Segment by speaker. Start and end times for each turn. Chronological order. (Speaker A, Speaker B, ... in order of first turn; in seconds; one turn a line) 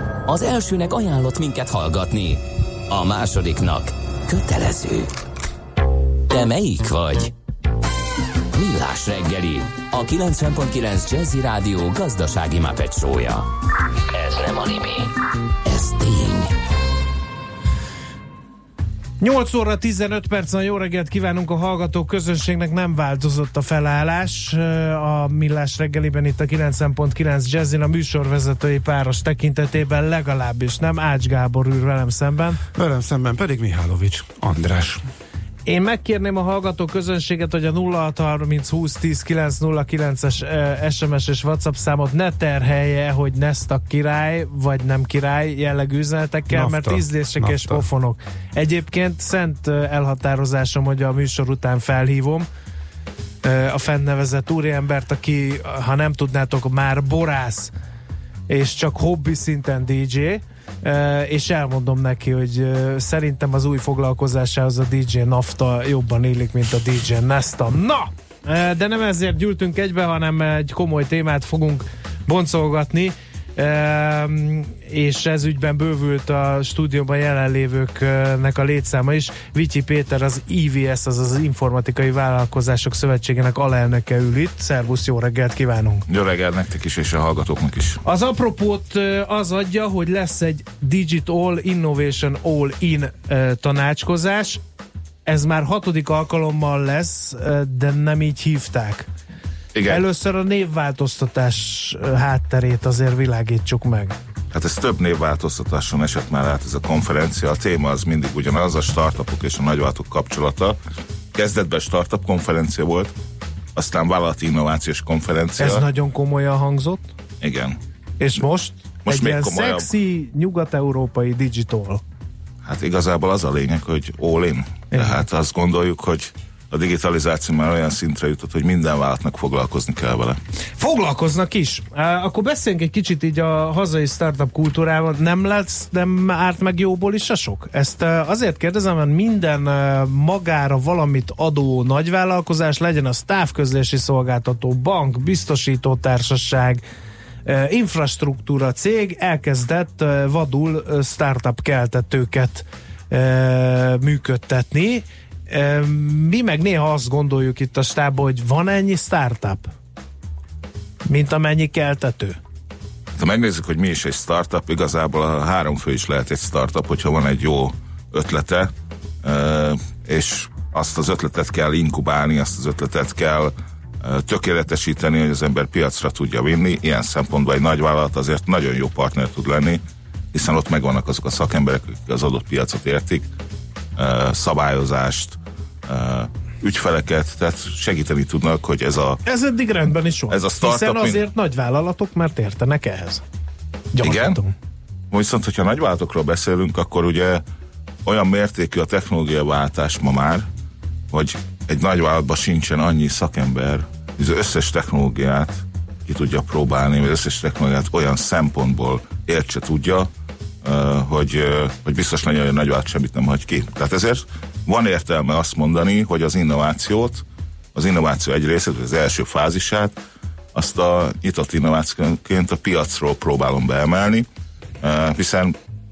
Speaker A: 0.3-5.1
Speaker A: 6.3-7.3
Speaker A: 8.5-13.5
Speaker A: 14.1-15.1
Speaker A: 15.7-16.5
Speaker B: 19.2-32.6
Speaker C: 32.8-35.0
Speaker B: 35.7-52.5
Speaker C: 46.5-47.9
Speaker B: 53.4-57.7
Speaker B: 58.5-86.0
Speaker D: 86.1-88.0
Speaker B: 88.0-94.6
Speaker B: 95.3-99.1
Speaker D: 99.7-100.0
Speaker B: 99.9-104.2
Speaker D: 104.5-110.8
Speaker D: 111.3-113.1
Speaker D: 113.8-115.8
Speaker B: 115.6-117.1
Speaker D: 117.4-117.8
Speaker B: 118.2-122.0
Speaker D: 119.1-119.9
Speaker D: 122.6-130.4
Speaker B: 124.9-125.2
Speaker B: 130.8-146.8
Speaker B: 147.5-159.7
Speaker B: 161.1-162.4
Speaker D: 163.2-168.7
Speaker D: 169.2-179.8
Speaker D: 180.3-183.3
Speaker D: 184.0-189.2
Speaker B: 189.3-193.2
Speaker D: 190.3-191.2
Speaker B: 193.9-194.5
Speaker D: 194.0-194.4
Speaker D: 195.1-197.4
Speaker D: 198.1-200.5
Speaker D: 201.1-210.1
Speaker D: 210.6-217.2
Speaker D: 217.8-219.9
Speaker D: 220.5-224.3
Speaker D: 224.8-225.6